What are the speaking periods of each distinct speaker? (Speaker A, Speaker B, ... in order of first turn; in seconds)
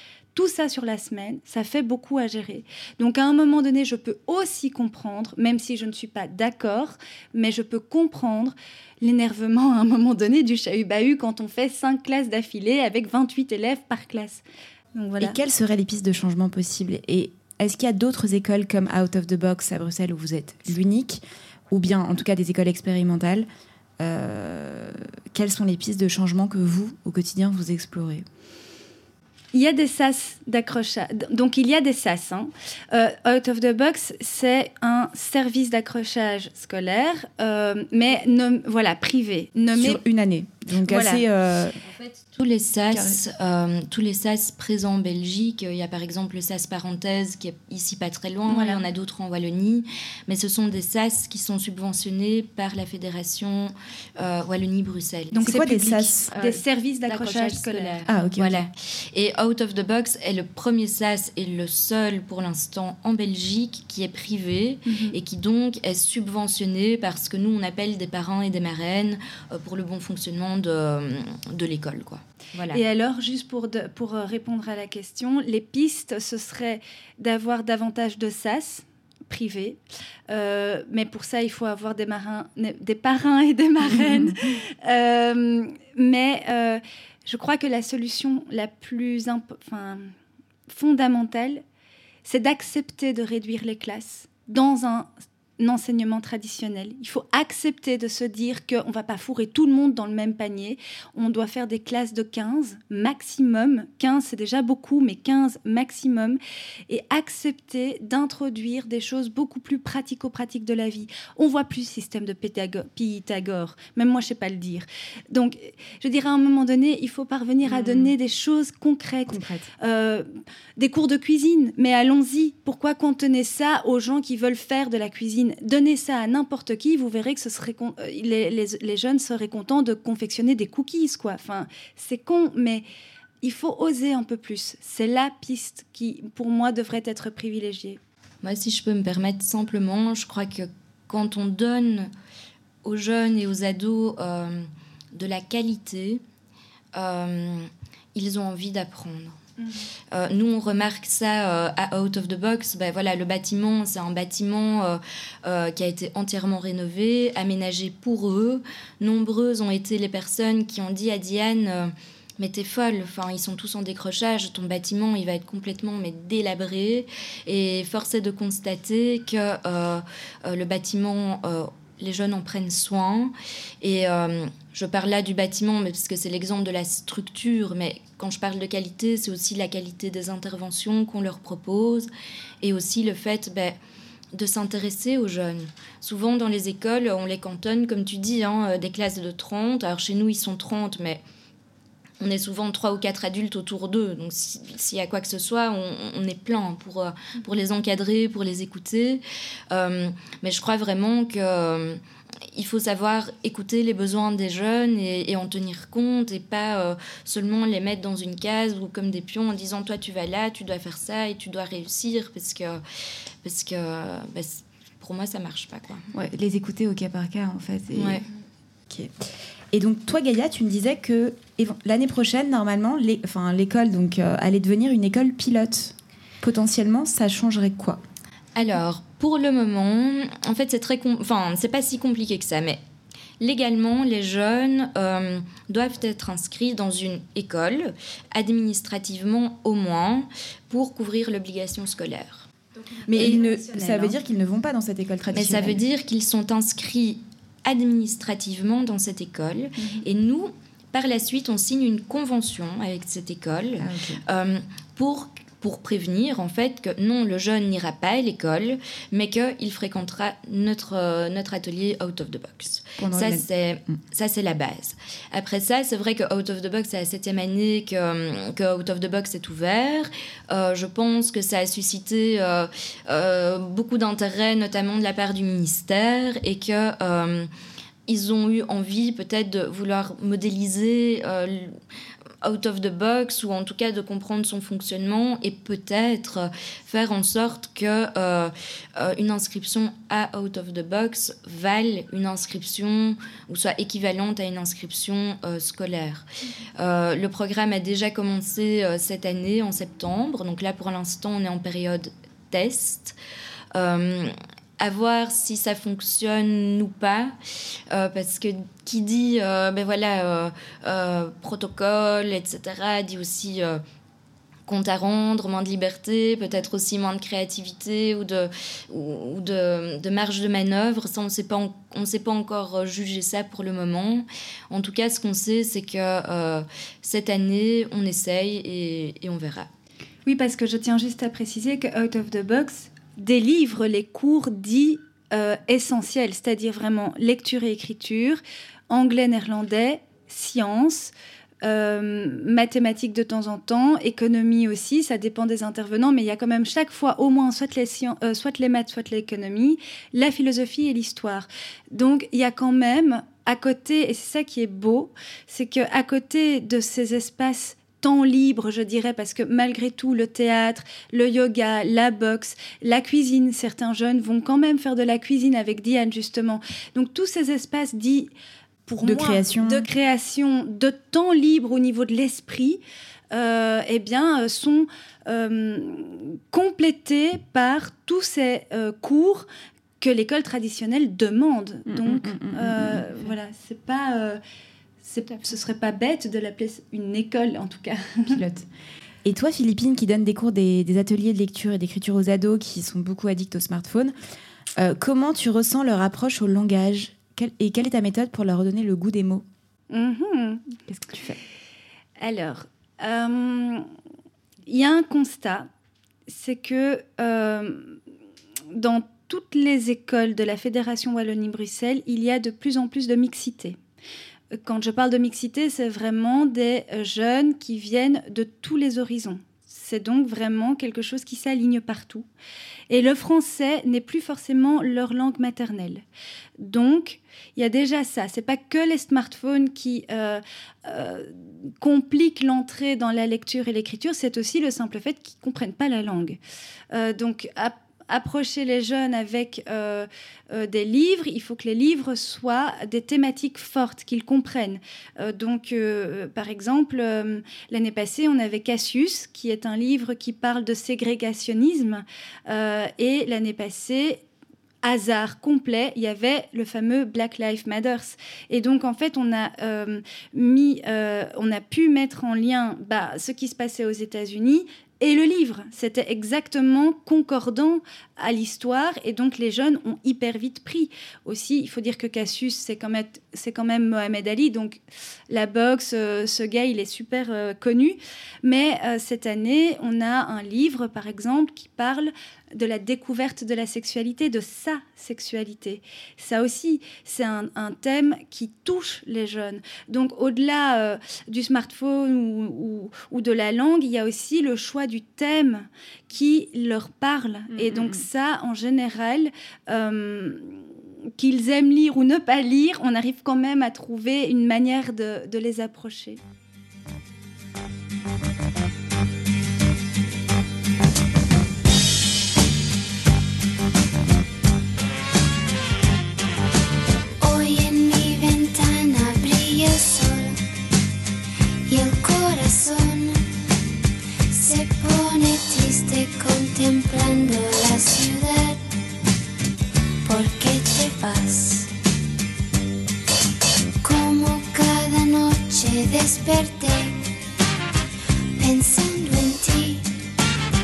Speaker A: 0.3-14.4, 14.9-15.3, 29.5-40.0, 40.9-41.2, 48.5-48.8, 55.3-58.0, 64.9-65.2, 72.7-90.1, 90.7-91.6, 92.2-132.8, 133.4-138.0, 149.6-149.9, 243.2-244.1, 330.2-368.3, 368.9-379.4, 380.0-384.4, 385.0-388.4, 399.9-400.8, 402.2-403.9, 404.7-405.7, 406.3-408.0, 408.7-413.8, 414.6-422.3, 422.9-426.0, 426.6-436.4, 436.9-454.2, 454.8-500.6, 501.2-506.2
Speaker B: 15.2-23.5, 24.0-28.2, 39.7-41.8, 42.9-43.2, 55.4-56.3, 58.0-58.6, 119.3-119.7, 216.1-218.2, 219.7-228.0, 243.1-245.8, 253.8-254.2, 263.0-264.0, 369.0-369.9, 381.9-383.3, 388.3-388.6, 389.2-394.1, 394.8-399.4, 400.9-401.4, 497.5-498.0
Speaker C: 41.9-55.4, 56.3-72.8, 117.7-118.1, 138.4-142.1, 142.8-146.2, 146.9-149.4, 150.1-182.1, 182.6-183.8, 184.3-191.2, 192.2-202.0, 202.5-212.8, 213.4-216.1, 217.9-218.2, 228.5-232.8, 233.4-242.5, 245.3-277.5, 278.1-281.8, 282.4-296.2, 296.8-303.2, 303.7-307.4, 307.9-313.8, 314.6-329.7
Speaker D: 517.2-520.4, 521.7-523.3, 524.3-528.6, 530.0-531.7, 533.8-537.0, 538.4-539.9